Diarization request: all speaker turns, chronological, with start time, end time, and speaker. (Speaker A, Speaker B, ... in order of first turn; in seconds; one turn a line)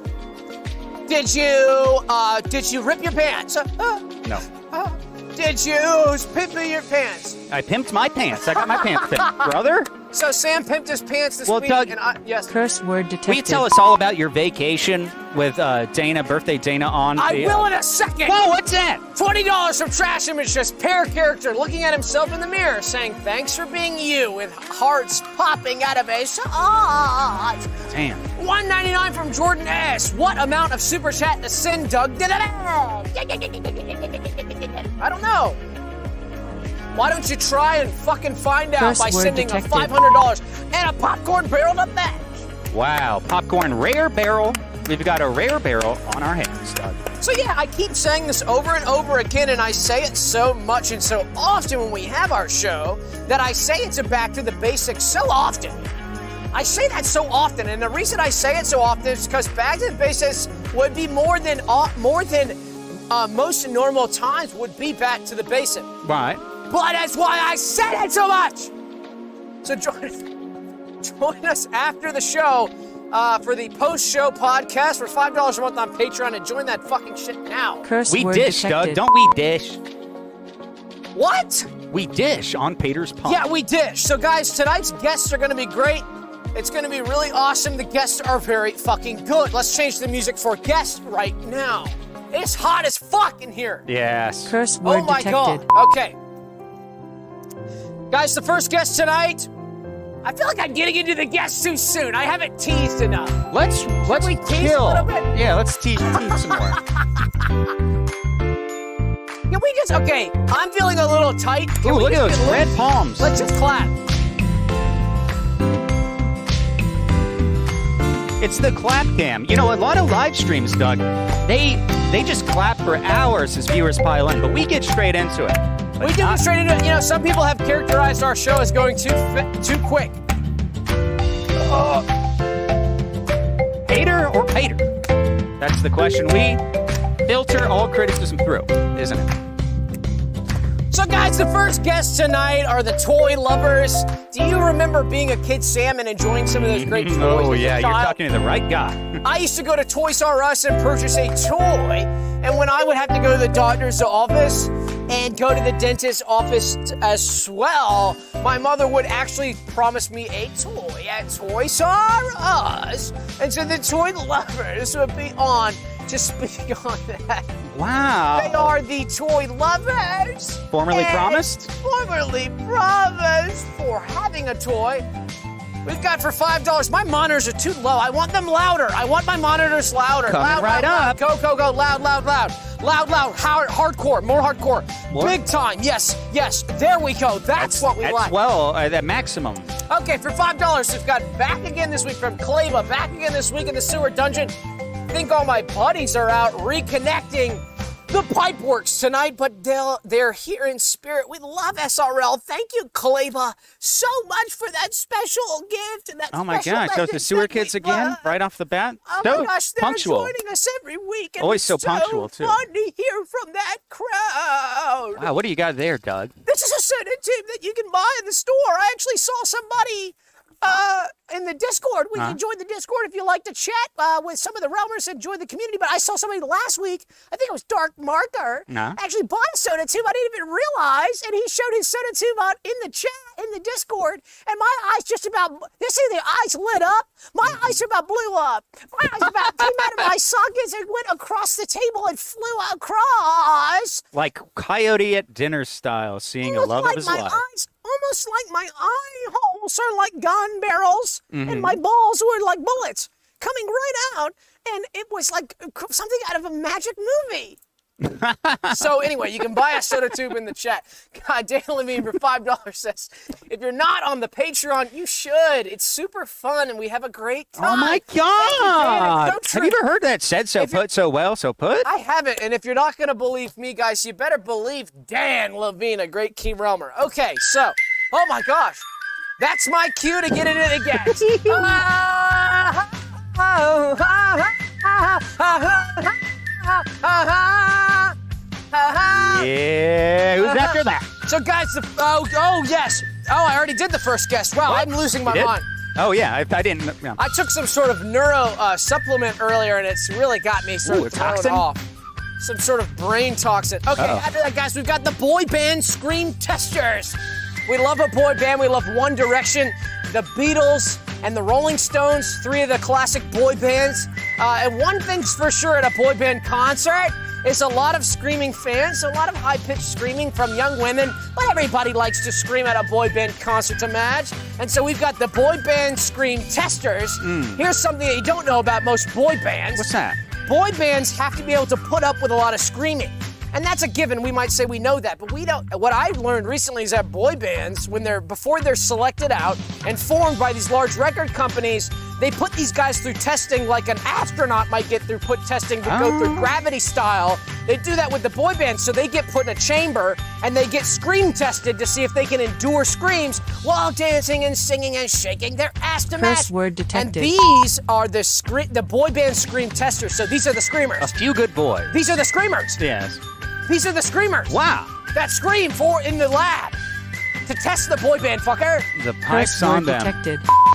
Speaker A: 1.1-7.4
Speaker B: 7.5-9.9
Speaker A: 8.9-9.4
Speaker A: 10.1-12.5
Speaker B: 11.4-11.9
Speaker C: 12.5-13.7
Speaker B: 13.2-17.7
Speaker A: 17.1-18.4
Speaker B: 18.2-19.0
Speaker A: 19.1-27.7
Speaker B: 27.9-28.3
Speaker A: 28.4-35.6
Speaker A: 36.9-42.3
Speaker C: 38.8-40.0
Speaker B: 42.7-47.1
Speaker A: 47.2-55.8
Speaker A: 56.5-62.6
Speaker A: 63.1-65.9
Speaker B: 66.0-66.4
Speaker A: 66.7-68.7
Speaker A: 69.6-70.3
Speaker A: 71.0-77.8
Speaker C: 77.8-79.0
Speaker B: 78.1-79.8
Speaker A: 81.1-81.7
Speaker B: 81.9-83.4
Speaker A: 83.2-93.8
Speaker B: 93.8-94.5
Speaker C: 94.5-95.6
Speaker A: 94.8-96.2
Speaker A: 98.1-99.5
Speaker A: 100.2-103.4
Speaker B: 103.5-106.8
Speaker A: 104.0-105.3
Speaker A: 106.2-107.0
Speaker A: 109.5-113.9
Speaker B: 111.8-113.3
Speaker B: 118.4-126.5
Speaker A: 126.0-130.2
Speaker B: 131.7-132.0
Speaker B: 133.8-134.8
Speaker B: 135.6-136.6
Speaker B: 137.2-139.3
Speaker A: 140.9-148.2
Speaker B: 146.6-149.2
Speaker A: 149.2-167.6
Speaker B: 167.7-168.7
Speaker A: 168.3-175.1
Speaker B: 170.7-171.7
Speaker A: 175.8-188.3
Speaker B: 180.2-181.2
Speaker B: 185.1-185.4
Speaker B: 187.6-189.8
Speaker A: 189.9-194.5
Speaker A: 195.1-208.3
Speaker B: 206.3-210.3
Speaker A: 209.1-215.3
Speaker B: 211.4-212.6
Speaker B: 215.2-216.3
Speaker A: 216.4-244.0
Speaker B: 228.7-229.0
Speaker B: 239.3-239.9
Speaker B: 244.1-247.4
Speaker A: 246.4-257.6
Speaker B: 251.3-251.8
Speaker B: 258.0-259.1
Speaker A: 258.7-269.8
Speaker B: 267.6-271.9
Speaker A: 270.6-270.8
Speaker A: 271.8-278.8
Speaker A: 279.4-288.2
Speaker B: 280.9-281.8
Speaker A: 288.7-289.5
Speaker B: 289.2-291.1
Speaker A: 290.4-295.6
Speaker B: 294.6-297.2
Speaker A: 297.2-301.8
Speaker B: 300.8-301.7
Speaker A: 302.4-329.9
Speaker B: 304.0-304.2
Speaker B: 327.2-327.6
Speaker B: 329.7-330.2
Speaker A: 330.4-361.1
Speaker B: 345.8-346.5
Speaker C: 356.2-357.4
Speaker B: 361.0-362.0
Speaker A: 361.9-362.8
Speaker B: 362.8-363.2
Speaker A: 363.7-364.6
Speaker B: 364.5-364.9
Speaker A: 365.1-366.8
Speaker A: 367.4-368.9
Speaker B: 368.9-370.1
Speaker C: 369.3-370.5